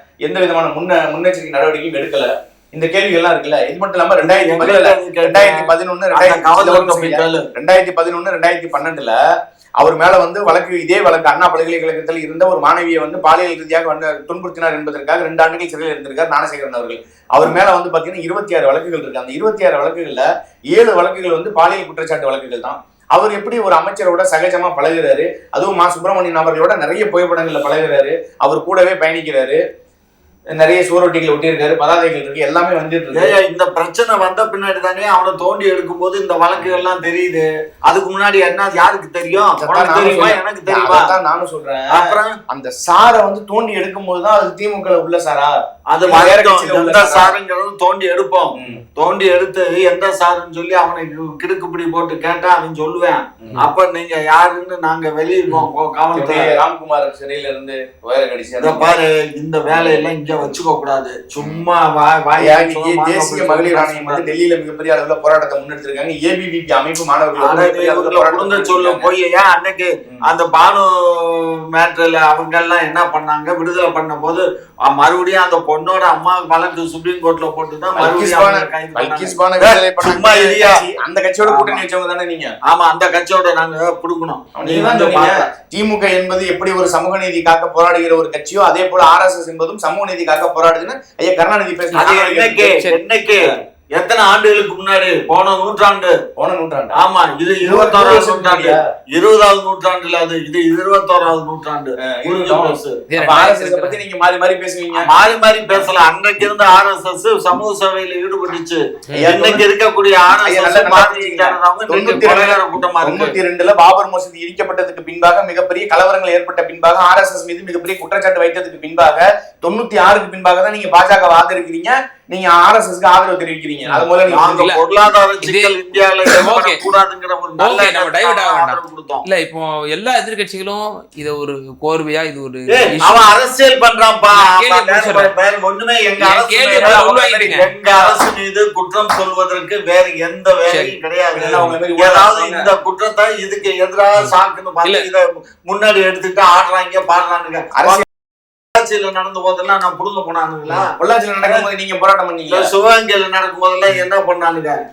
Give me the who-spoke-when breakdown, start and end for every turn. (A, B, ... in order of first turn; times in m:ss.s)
0:00.2-0:09.2 A
0:04.2-0:07.5 B
0:09.8-0:29.6 A
0:30.5-0:33.4 A
0:33.1-0:41.1 B
0:36.6-0:36.8 A
0:39.4-0:47.3 A
0:41.9-0:42.3 B
0:45.9-0:56.6 B
0:48.6-0:48.8 A
0:56.1-0:58.9 A
0:58.6-1:04.3 B
0:59.7-1:00.5 A
1:01.4-1:01.6 A
1:02.4-1:09.1 A
1:07.4-1:20.8 B
1:17.9-1:22.5 A
1:21.5-1:21.8 B
1:22.6-1:25.5 B
1:24.5-1:32.6 A
1:31.9-1:36.1 B
1:32.6-1:33.0 C
1:36.3-1:37.0 A
1:37.0-1:43.0 B
1:37.6-1:38.8 A
1:42.0-1:45.1 A
1:43.1-1:44.0 C
1:45.0-1:53.4 B
1:49.1-1:49.6 A
1:50.4-2:04.6 A
2:03.9-2:04.8 C
2:04.3-2:09.3 B
2:05.4-2:06.8 C
2:07.6-2:13.2 C
2:12.7-2:28.0 B
2:14.3-2:15.3 C
2:16.2-2:17.7 C
2:16.8-2:18.2 A
2:20.7-2:20.9 C
2:21.3-2:22.7 A
2:24.2-2:25.1 C
2:27.8-2:28.0 A
2:28.7-2:31.7 B
2:31.0-2:32.7 A
2:32.5-2:34.8 B